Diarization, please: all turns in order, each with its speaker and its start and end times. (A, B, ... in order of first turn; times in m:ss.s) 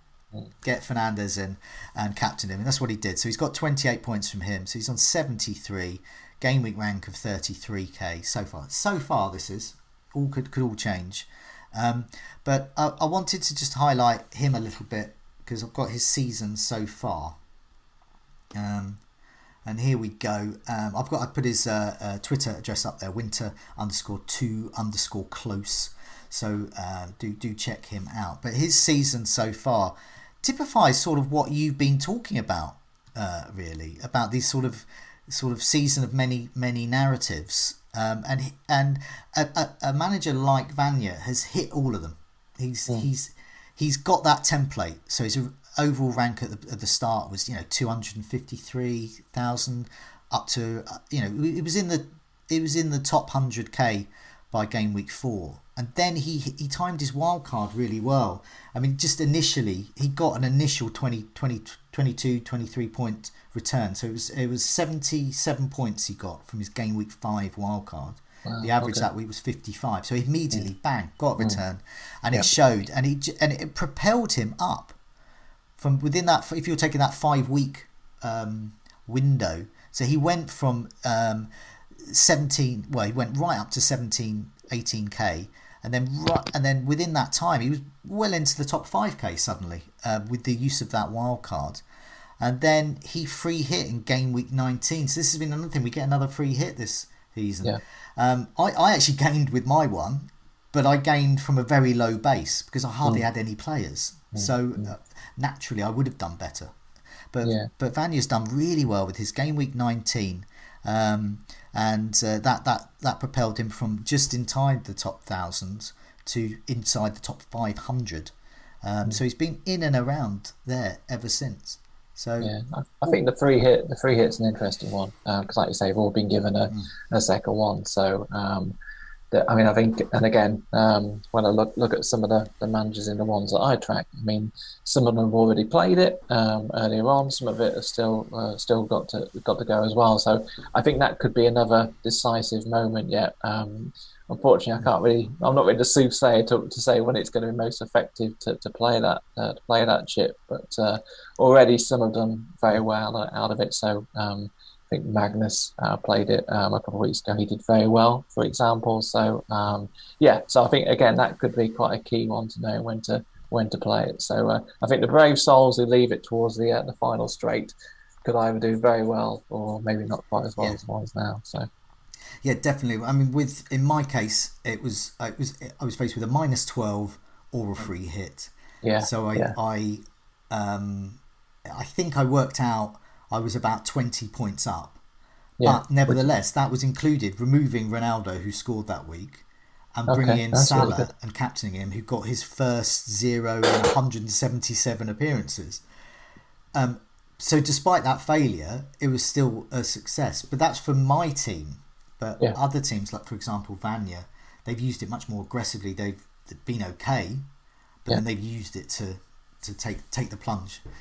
0:00.6-0:17.4 A
0:18.5-0:19.0 A
0:19.6-1:15.0 A
1:08.5-1:09.1 B
1:15.8-1:31.8 A
1:32.4-1:46.7 A
1:44.3-1:44.9 B
1:47.3-1:58.3 A
1:47.4-1:47.7 B
1:58.8-2:03.2 A
2:02.4-2:08.8 B
2:09.3-2:47.7 B
2:48.2-2:51.7 B
2:52.4-3:05.0 A
2:58.8-2:59.6 B
3:05.6-3:06.3 B
3:05.6-3:09.4 A
3:10.0-3:15.8 A
3:10.1-3:11.1 B
3:16.7-3:27.5 A
3:28.0-3:30.8 A